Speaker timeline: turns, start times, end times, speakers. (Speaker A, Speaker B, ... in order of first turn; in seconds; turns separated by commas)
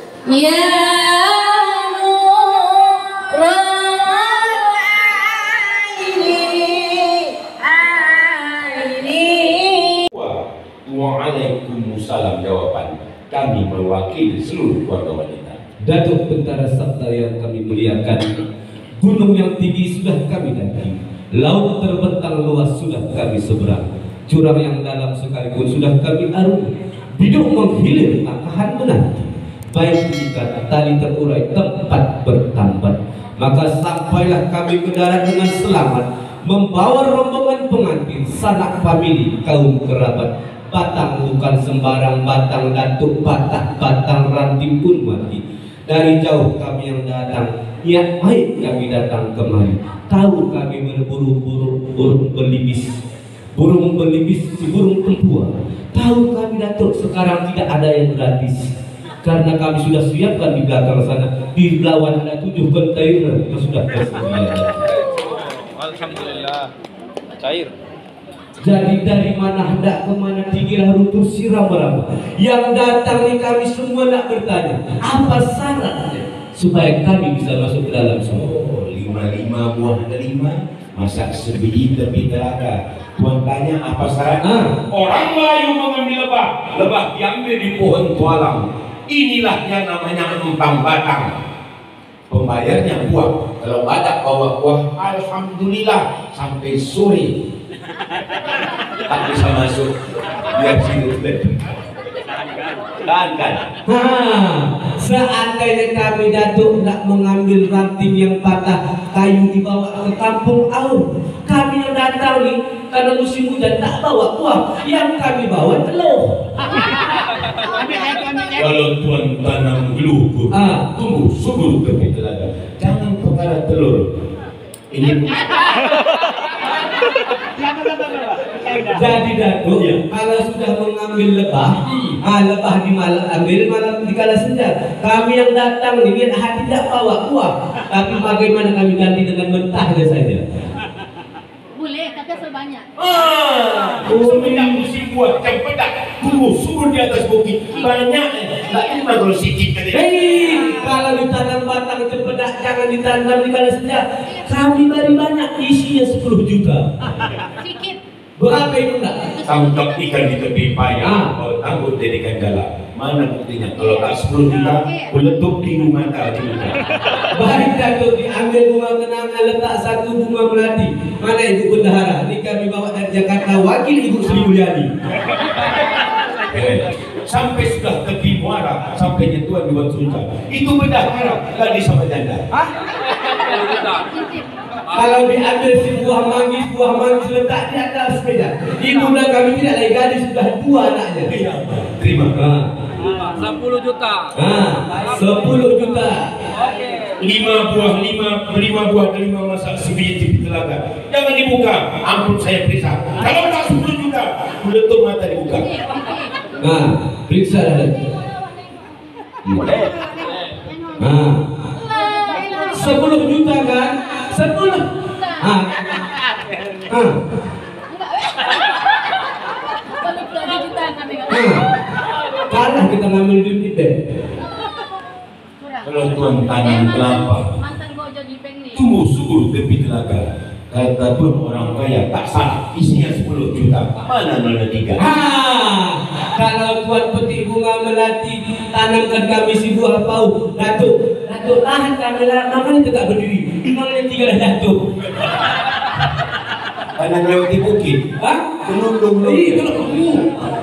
Speaker A: 0.3-10.1, Speaker B: 10.1-15.6, Speaker C: 15.9-18.4, Speaker C: 19.0-53.0, Speaker C: 53.5-58.7, Speaker C: 59.2-64.8, Speaker A: 65.2-66.7, Speaker A: 67.4-67.7, Speaker C: 68.6-78.5, Speaker B: 78.3-91.4, Speaker C: 84.4-84.8, Speaker B: 92.3-97.4, Speaker B: 99.1-99.9, Speaker B: 100.5-101.8, Speaker B: 103.0-103.7, Speaker C: 103.9-116.4, Speaker B: 118.0-124.1, Speaker C: 120.5-120.9, Speaker B: 124.9-125.5, Speaker C: 128.8-140.4, Speaker B: 131.9-132.2, Speaker D: 141.8-142.9, Speaker B: 143.0-150.1, Speaker C: 144.1-144.9, Speaker C: 149.9-156.9, Speaker C: 158.4-159.2, Speaker B: 159.4-166.8, Speaker C: 161.0-161.3, Speaker C: 167.3-174.9, Speaker B: 176.5-182.5, Speaker D: 183.5-184.4, Speaker C: 184.9-191.3, Speaker B: 191.3-192.4, Speaker C: 192.3-192.7, Speaker B: 193.1-193.7, Speaker A: 193.8-194.1, Speaker C: 194.3-196.3, Speaker B: 197.2-205.7, Speaker C: 206.6-208.0, Speaker B: 209.4-210.0, Speaker C: 211.0-211.4, Speaker D: 212.0-212.6, Speaker C: 212.6-214.9, Speaker C: 215.4-215.8, Speaker C: 216.9-217.2, Speaker D: 220.1-221.3, Speaker C: 221.3-221.7, Speaker C: 222.5-223.9, Speaker B: 225.8-227.6, Speaker D: 227.9-228.6, Speaker B: 228.7-235.0, Speaker C: 235.0-244.8, Speaker B: 247.0-248.0, Speaker C: 248.2-248.5, Speaker B: 248.6-250.5, Speaker C: 249.2-250.0